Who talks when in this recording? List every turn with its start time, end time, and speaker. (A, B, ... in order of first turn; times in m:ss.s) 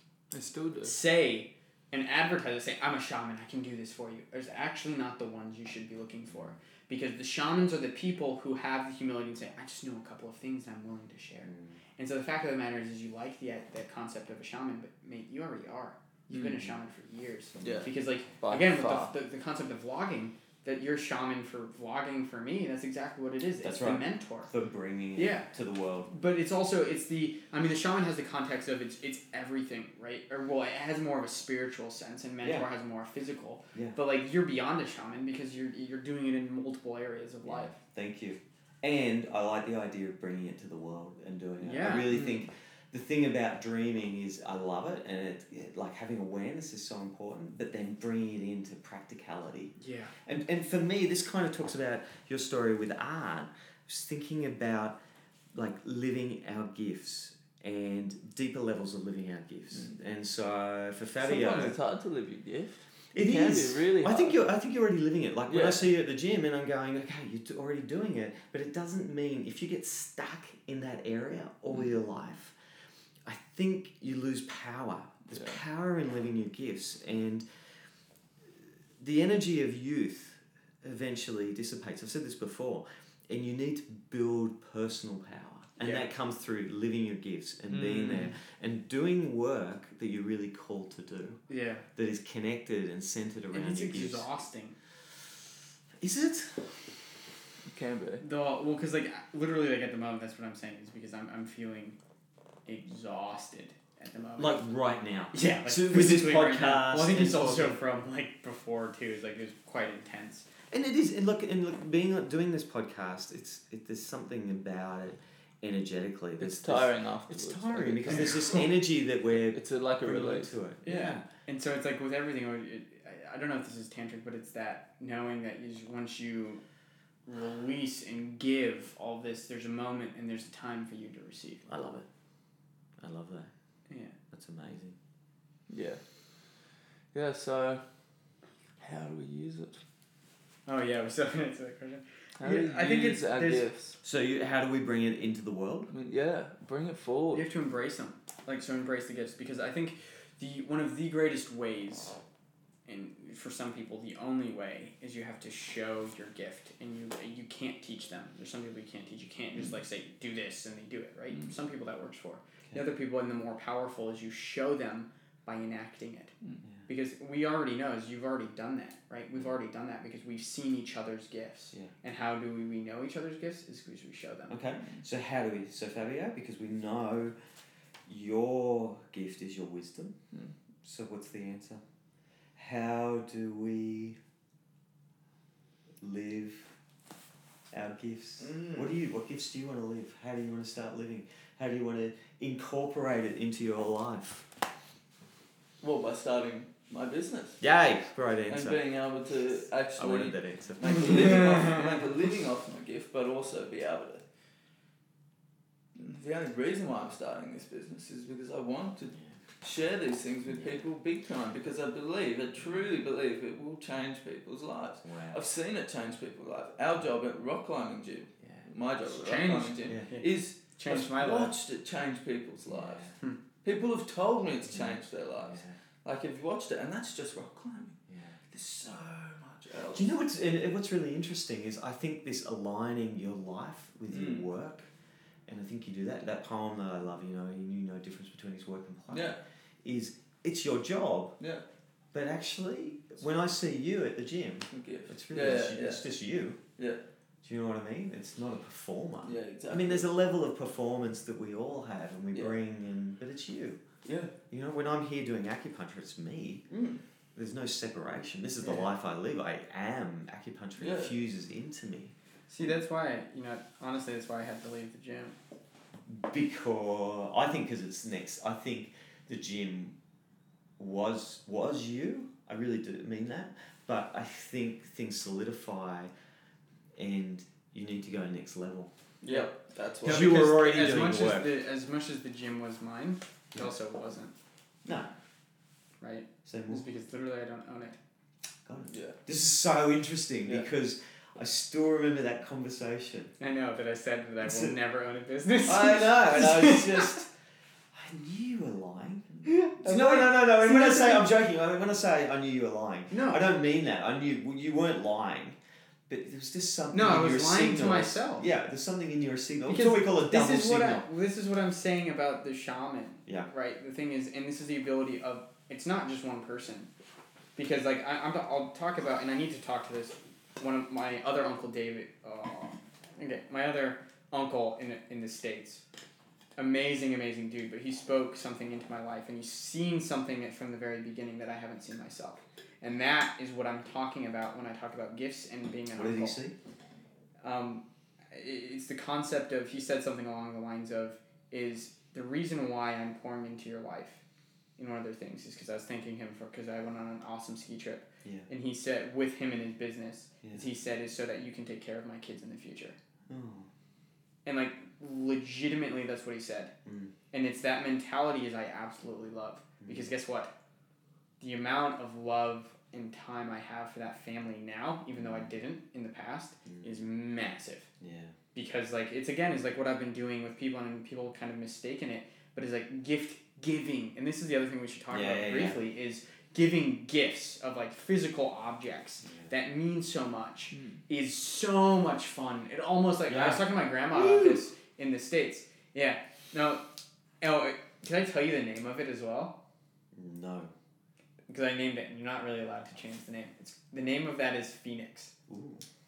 0:00.3-0:01.0 A
0:00.8-0:24.5 B
0:11.5-0:11.8 C
0:16.3-0:16.6 A
0:17.6-0:17.9 A
0:18.4-0:19.1 A
0:23.6-0:26.1 C
0:25.2-0:25.5 B
0:26.1-0:37.8 B
0:32.4-0:32.7 C
0:37.5-0:49.7 C
0:41.6-0:42.4 B
0:49.8-0:50.1 B
0:50.2-0:55.0 C
0:55.5-1:01.8 C
1:01.2-1:04.4 A
1:03.1-1:12.6 C
1:05.5-1:05.8 A
1:13.2-1:17.4 C
1:15.3-1:15.6 A
1:19.0-1:31.4 C
1:25.8-1:26.1 B
1:27.7-1:28.3 A
1:31.5-1:31.8 B
1:32.0-1:34.3 C
1:33.5-1:34.8 B
1:36.0-1:36.7 C
1:37.7-1:38.2 A
1:38.2-1:42.0 B
1:42.7-1:44.6 B
1:44.4-1:47.8 C
1:45.3-1:50.5 B
1:50.7-2:01.3 C
1:56.4-1:58.7 A
1:58.1-1:58.6 B
1:59.3-2:00.5 A
2:00.8-2:06.6 B
2:07.3-2:11.6 B
2:11.7-2:12.1 C
2:13.0-2:13.5 C
2:13.9-2:14.2 B
2:14.3-2:15.0 C
2:15.7-2:16.0 A
2:17.1-2:17.8 A
2:18.8-2:19.8 A
2:20.7-2:23.7 B
2:22.4-2:24.0 A
2:24.0-2:25.9 C
2:25.9-2:27.5 A
2:27.3-2:32.2 B
2:32.9-2:46.3 B
2:46.9-2:54.6 B
2:54.5-2:57.3 C
2:58.1-3:00.2 C
3:00.8-3:01.8 C
3:02.6-3:04.2 C
3:06.0-3:06.7 C
3:07.7-3:14.5 C
3:08.4-3:08.9 A
3:15.8-3:17.6 A
3:17.6-3:18.8 C
3:18.5-3:24.2 A
3:20.0-3:21.8 C
3:26.0-3:43.1 A
3:30.6-3:30.8 C
3:35.0-3:35.4 C
3:39.1-3:41.5 B
3:42.7-3:43.1 C
3:43.6-3:48.0 A
3:44.7-3:45.8 C
3:48.1-3:48.4 C
3:48.5-3:50.1 A
3:49.9-3:54.9 C
3:54.1-3:54.5 A
3:55.5-4:01.3 C
3:59.1-3:59.4 A
4:02.1-4:06.6 C
4:04.7-4:06.1 A
4:07.4-4:13.8 C
4:09.2-4:10.1 A
4:14.0-4:14.3 A
4:14.5-4:16.7 C
4:16.7-4:17.0 A
4:17.4-4:22.1 C
4:20.8-4:21.1 A
4:22.5-4:25.4 B
4:26.1-4:30.0 C
4:30.8-4:36.1 C
4:37.0-4:38.9 C
4:39.2-4:39.5 B
4:39.2-4:40.4 A
4:40.0-4:41.5 C
4:40.0-4:44.3 B
4:44.8-4:45.1 C
4:46.0-4:48.0 B
4:46.4-4:46.8 C
4:48.7-4:53.3 C
4:48.9-4:49.2 A
4:53.4-4:57.2 B
4:54.4-4:54.8 C
4:55.6-4:57.3 C
4:57.9-5:11.0 C
4:59.4-5:01.3 B
5:03.1-5:03.5 B
5:06.9-5:08.5 B
5:09.7-5:16.9 B
5:17.6-5:25.8 B
5:26.6-5:36.4 B
5:36.0-5:36.6 C
5:37.4-5:44.2 B
5:44.8-5:53.0 B
5:53.3-5:53.7 C
5:54.4-5:56.7 B
5:56.8-5:57.1 C
5:57.3-6:00.5 B
5:59.8-6:00.1 C
6:01.4-6:07.9 B
6:05.2-6:05.5 C
6:06.7-6:07.0 C
6:08.0-6:08.3 C
6:08.5-6:26.8 B
6:15.1-6:15.8 C
6:20.7-6:21.0 A
6:23.3-6:23.6 C
6:24.2-6:24.6 C
6:27.4-6:29.6 B
6:30.1-6:30.7 C
6:31.5-6:35.3 B
6:35.5-6:35.8 C